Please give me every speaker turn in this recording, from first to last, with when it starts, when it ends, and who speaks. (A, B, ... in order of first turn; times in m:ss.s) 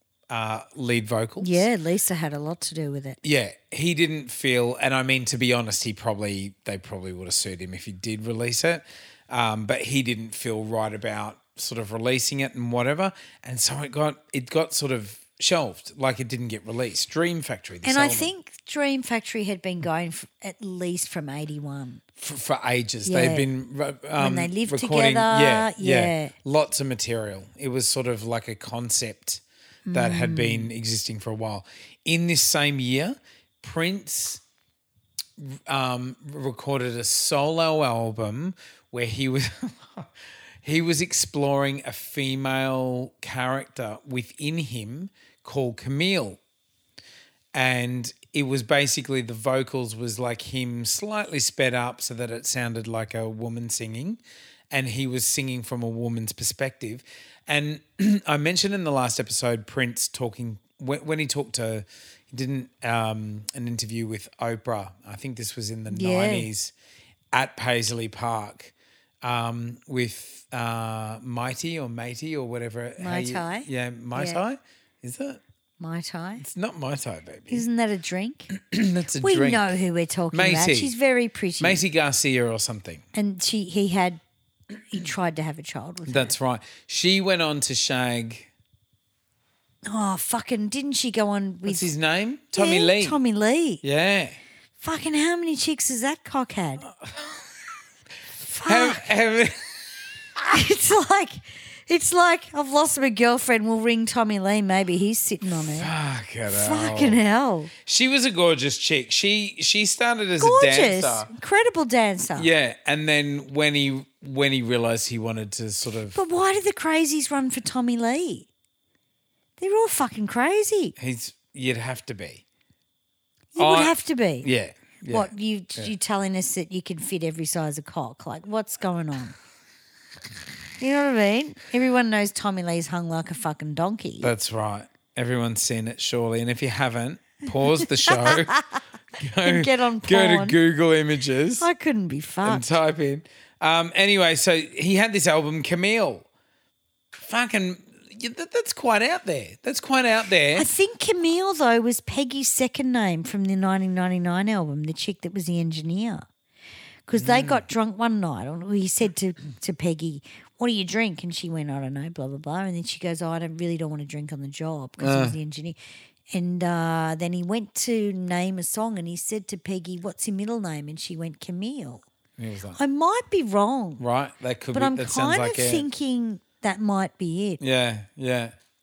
0:00.3-0:01.7 A
0:01.4-0:03.2 B
0:03.2-0:18.3 A
0:17.8-0:22.0 B
0:22.2-0:34.4 A
0:23.0-0:23.5 B
0:24.2-0:26.3 B
0:29.9-0:30.7 B
0:35.4-0:40.1 A
0:40.6-0:46.4 A
0:47.5-0:54.2 A
0:54.7-1:06.7 A
1:05.9-1:06.5 B
1:07.3-1:15.4 A
1:13.0-1:14.4 B
1:15.8-1:16.4 B
1:16.4-1:17.6 A
1:17.5-1:18.5 B
1:18.5-1:19.7 A
1:19.2-1:21.8 B
1:20.3-1:20.9 A
1:21.6-1:23.0 A
1:23.1-1:24.2 B
1:24.9-1:26.3 B
1:26.1-1:28.5 A
1:29.8-1:31.9 B
1:31.7-1:33.2 A
1:32.6-1:33.8 B
1:33.8-1:34.4 A
1:34.8-1:36.9 B
1:36.9-1:37.4 A
1:38.4-1:39.0 B
1:38.7-1:39.7 A
1:40.4-1:45.9 B
1:45.4-1:47.2 A
1:46.5-1:47.7 B
1:47.8-1:51.3 A
1:50.4-1:52.5 B
1:52.4-1:56.2 A
1:56.1-1:58.5 B
1:59.6-2:00.9 B
2:01.0-2:02.4 A
2:03.6-2:04.5 B
2:03.6-2:05.9 A
2:05.1-2:09.4 B
2:10.8-2:14.3 B
2:14.2-2:18.6 A
2:17.8-2:18.7 B
2:19.2-2:21.7 A
2:19.4-2:20.6 B
2:21.6-2:22.7 B
2:22.4-2:26.3 A
2:27.1-2:30.7 A
2:30.6-2:36.3 B
2:37.1-2:45.8 B
2:37.2-2:37.6 A
2:45.0-2:45.4 A
2:46.3-2:52.0 B
2:52.4-2:52.8 A
2:52.8-2:54.0 B
2:54.0-2:55.9 A
2:54.7-2:57.6 B
2:57.6-2:58.5 A